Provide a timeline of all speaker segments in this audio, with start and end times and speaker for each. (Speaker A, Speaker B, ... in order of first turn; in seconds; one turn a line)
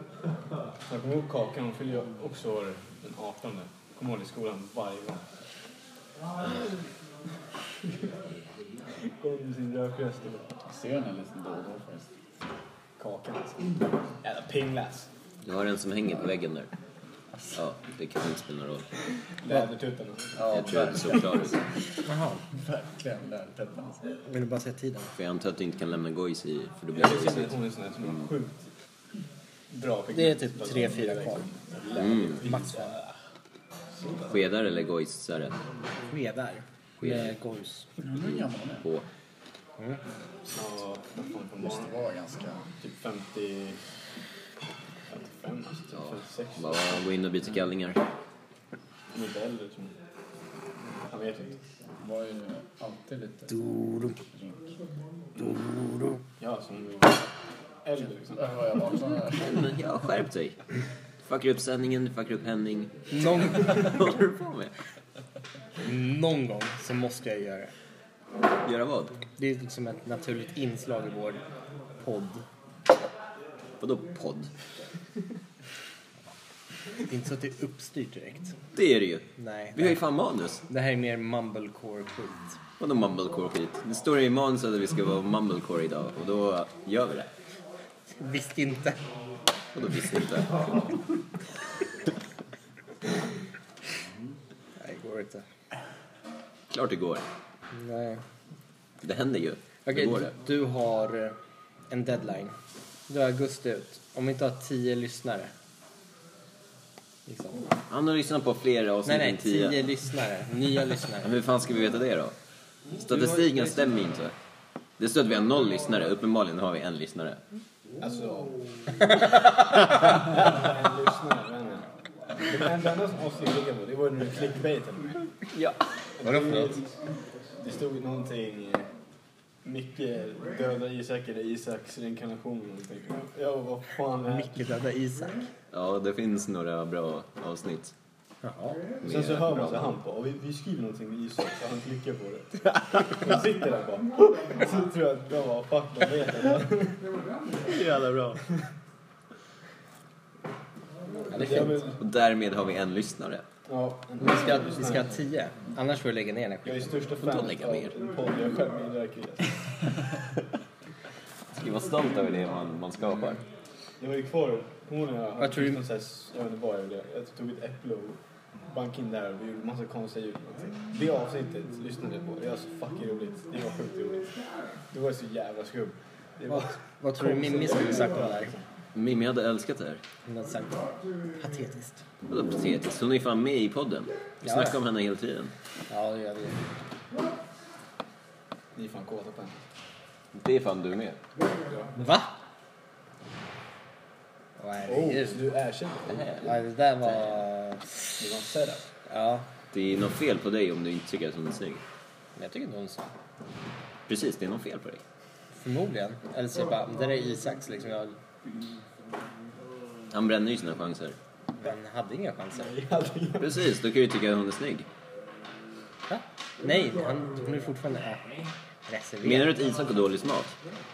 Speaker A: 0.9-5.2
Speaker A: 9.1-10.6
Speaker B: 10.7-12.1
Speaker A: 13.0-15.1
Speaker C: 15.4-16.7
Speaker C: 17.6-18.9
Speaker A: 19.4-20.9
Speaker B: 20.4-21.4
Speaker C: 20.5-21.6
Speaker D: 22.1-22.4
Speaker B: 22.5-24.2
Speaker D: 24.2-25.1
Speaker C: 25.2-27.6
Speaker A: 26.9-28.7
Speaker A: 29.7-33.0
Speaker D: 30.1-33.0
Speaker C: 32.0-32.3
Speaker C: 34.3-35.6
Speaker D: 36.1-37.9
Speaker C: 37.0-37.3
Speaker B: 38.0-38.9
Speaker C: 38.8-39.0
Speaker A: 40.5-41.9
Speaker B: 41.6-42.7
Speaker A: 42.8-43.8
Speaker A: 45.1-46.8
Speaker C: 46.6-48.0
Speaker A: 49.1-50.0
Speaker A: 50.8-51.6
Speaker B: 52.0-53.7
Speaker D: 53.6-54.1
Speaker B: 54.2-54.7
Speaker D: 55.4-56.2
Speaker A: 56.4-57.2
Speaker A: 57.9-58.6
Speaker B: 58.4-59.6
Speaker C: 59.4-60.6
Speaker C: 61.3-64.7
Speaker D: 63.1-64.0
Speaker D: 65.8-67.7
Speaker C: 68.6-69.2
Speaker D: 69.4-71.4
Speaker D: 72.0-72.5
Speaker C: 73.8-74.5
Speaker D: 77.1-78.6
Speaker C: 78.7-80.6
Speaker D: 79.4-80.0
Speaker D: 80.7-82.6
Speaker C: 82.8-87.3
Speaker D: 88.2-89.1
Speaker C: 89.8-90.8
Speaker D: 94.8-95.5
Speaker C: 96.7-97.3
Speaker D: 97.7-98.2
Speaker C: 99.0-100.4
Speaker D: 99.9-101.4
Speaker D: 101.9-102.6
Speaker D: 103.1-105.5
Speaker D: 107.3-107.7
Speaker C: 107.9-109.8
Speaker D: 109.1-111.3
Speaker C: 111.2-112.3
Speaker C: 113.0-114.3
Speaker C: 115.0-117.4
Speaker A: 118.0-118.9
Speaker A: 120.2-125.3
Speaker C: 125.5-125.8
Speaker A: 126.2-126.9
Speaker D: 126.2-126.8
Speaker A: 127.6-128.9
Speaker A: 129.6-134.5
Speaker D: 134.3-135.5
Speaker C: 135.7-137.9
Speaker D: 138.4-138.9
Speaker C: 139.0-139.9
Speaker A: 139.0-147.1
Speaker C: 147.7-148.4
Speaker A: 151.3-152.0
Speaker D: 151.3-151.8
Speaker C: 151.3-153.4
Speaker A: 153.7-155.1
Speaker D: 154.2-157.1
Speaker A: 156.6-159.7
Speaker C: 157.2-157.9
Speaker C: 161.5-163.4
Speaker A: 164.0-174.3
Speaker D: 165.4-165.8
Speaker A: 174.9-178.7
Speaker D: 176.5-178.5
Speaker C: 178.9-180.0
Speaker D: 180.2-182.0
Speaker C: 182.3-185.5
Speaker D: 184.4-184.8
Speaker D: 185.9-186.6
Speaker A: 188.8-189.6
Speaker C: 190.3-191.2
Speaker D: 192.0-192.4
Speaker D: 194.6-195.4
Speaker A: 194.9-196.4
Speaker C: 196.1-197.4
Speaker D: 196.4-198.1
Speaker A: 198.2-198.9
Speaker D: 199.1-199.5
Speaker C: 199.7-201.8
Speaker D: 202.4-203.1
Speaker C: 204.1-205.0
Speaker D: 205.5-208.2
Speaker C: 210.1-211.2
Speaker D: 211.6-212.9
Speaker A: 212.6-213.6
Speaker C: 213.4-214.9
Speaker D: 216.1-219.6
Speaker C: 219.2-220.6